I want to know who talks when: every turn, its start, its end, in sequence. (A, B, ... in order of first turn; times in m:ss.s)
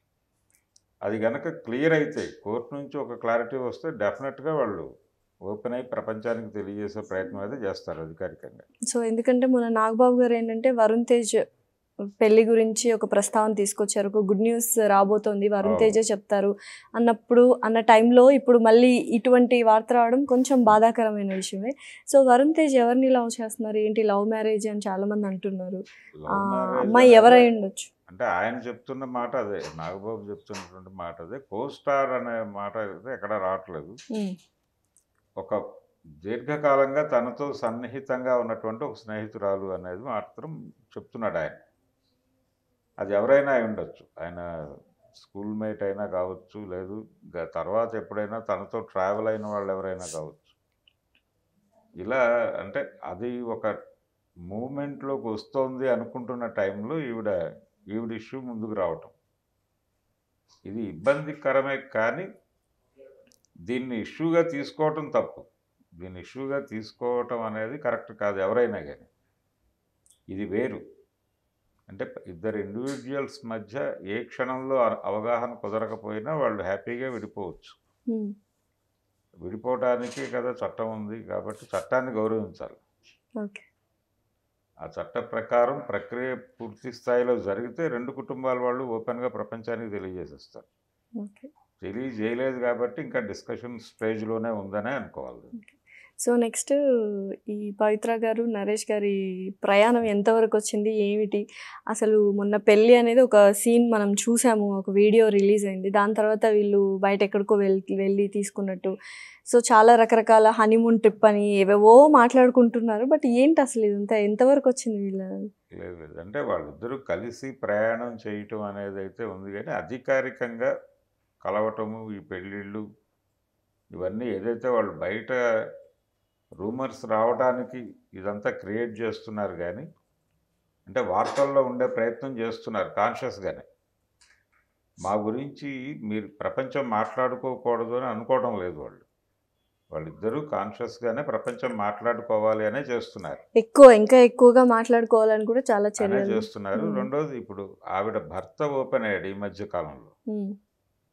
0:01.0-0:04.9 A
0:05.5-0:08.6 A
0:08.9-0:11.4 B
0:12.2-0:25.8 B
0:15.6-0:16.0 A
0:26.2-0:27.5 A
0:26.3-0:27.9 B
0:28.1-0:34.0 A
0:36.2-0:41.6 A
0:43.0-0:44.4 A
0:45.2-0:50.6 A
0:52.0-0:53.7 A
0:54.5-0:57.3 A
0:57.9-0:59.1 A
1:00.6-1:02.3 A
1:03.7-1:05.4 A
1:06.0-1:09.1 A
1:10.3-1:10.8 A
1:11.9-1:17.8 A
1:19.4-1:22.8 A
1:23.4-1:23.6 B
1:24.8-1:30.6 A
1:31.2-1:31.5 B
1:31.8-1:35.5 A
1:35.6-1:36.8 B
1:37.5-1:48.9 B
1:49.5-1:55.3 B
1:55.7-2:00.7 A
2:01.4-2:02.8 A
2:03.9-2:05.4 A
2:06.6-2:09.9 A
2:10.9-2:13.6 A
2:15.0-2:19.0 A
2:19.9-2:23.4 A
2:23.6-2:27.1 B
2:26.0-2:30.1 A